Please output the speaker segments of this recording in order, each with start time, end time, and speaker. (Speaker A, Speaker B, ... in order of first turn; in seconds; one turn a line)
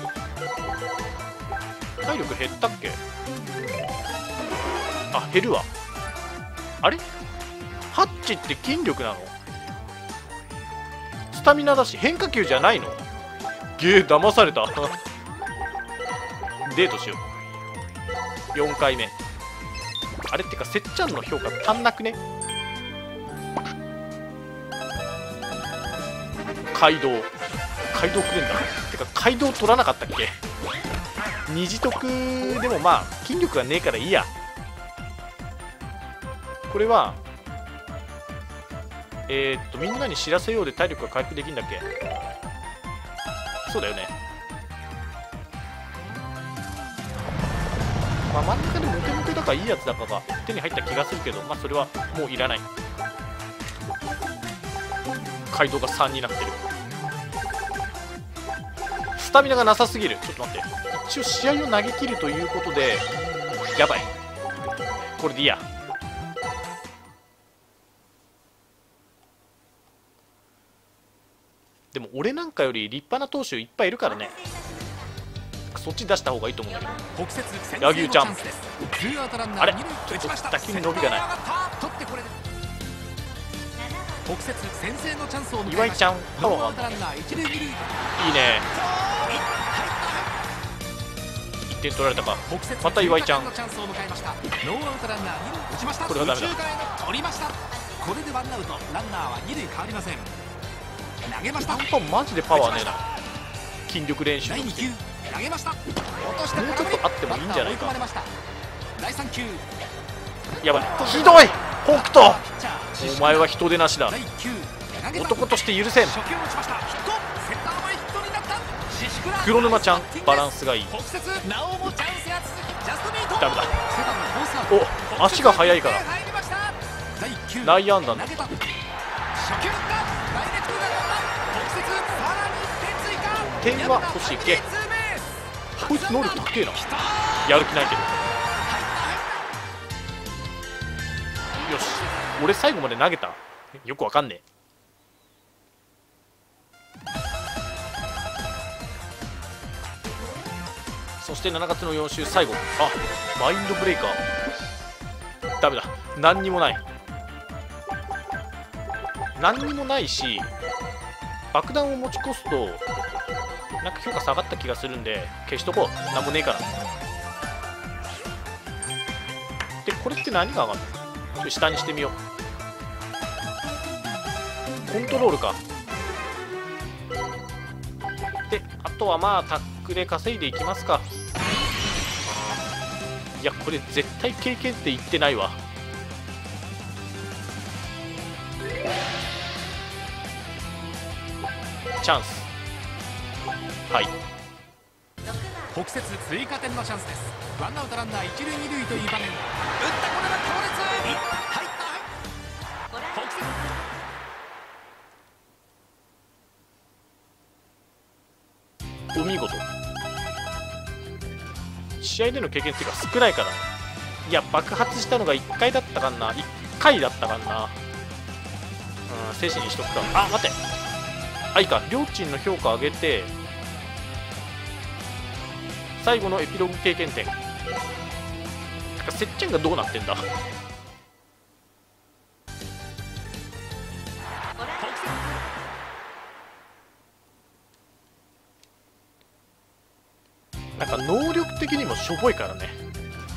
Speaker A: 2.0-3.0
Speaker A: 5.1-5.7
Speaker A: 7.9-9.3
Speaker A: 11.3-13.0
Speaker A: 13.8-15.0
Speaker A: 16.6-17.2
Speaker A: 18.5-19.1
Speaker A: 20.3-22.2
Speaker A: 26.7-27.3
Speaker A: 27.9-30.4
Speaker A: 31.5-34.3
Speaker A: 36.7-37.2
Speaker A: 39.3-41.9
Speaker A: 43.6-44.1
Speaker A: 48.3-52.7
Speaker A: 55.5-56.6
Speaker A: 59.2-63.1
Speaker A: 63.8-64.1
Speaker A: 65.2-65.7
Speaker A: 71.9-74.4
Speaker A: 75.7-77.0
Speaker B: 77.1-82.3
Speaker A: 77.8-78.3
Speaker A: 79.6-81.2
Speaker B: 84.1-87.8
Speaker A: 85.6-86.9
Speaker A: 88.2-88.7
Speaker B: 88.7-90.4
Speaker A: 91.7-93.5
Speaker B: 92.5-100.3
Speaker A: 96.0-96.5
Speaker B: 101.2-101.9
Speaker A: 101.6-103.0
Speaker B: 102.5-103.1
Speaker A: 103.9-104.9
Speaker B: 104.4-108.3
Speaker A: 106.5-108.0
Speaker B: 109.0-109.6
Speaker A: 110.6-112.4
Speaker B: 110.7-113.5
Speaker A: 113.0-114.2
Speaker B: 114.1-128.8
Speaker A: 115.1-116.2
Speaker A: 119.4-120.9
Speaker A: 123.4-123.7
Speaker A: 124.7-126.0
Speaker A: 127.6-128.5
Speaker B: 129.3-137.6
Speaker A: 133.6-134.6
Speaker A: 135.8-136.8
Speaker A: 137.4-138.2
Speaker B: 138.6-139.5
Speaker A: 141.6-144.4
Speaker A: 151.2-154.2
Speaker A: 155.6-156.8
Speaker A: 159.4-160.5
Speaker A: 161.5-162.8
Speaker A: 163.8-166.7
Speaker A: 169.8-172.2
Speaker A: 174.9-175.6
Speaker A: 178.5-181.1
Speaker A: 183.4-185.6
Speaker A: 192.0-192.5
Speaker B: 195.6-202.1
Speaker B: 202.9-203.7
Speaker A: 209.1-209.6
Speaker A: 212.0-213.7
Speaker A: 214.2-217.8
Speaker A: 219.1-220.6
Speaker A: 221.5-223.3
Speaker A: 226.0-227.3
Speaker A: 229.0-230.2
Speaker B: 234.8-235.1
Speaker A: 240.8-242.8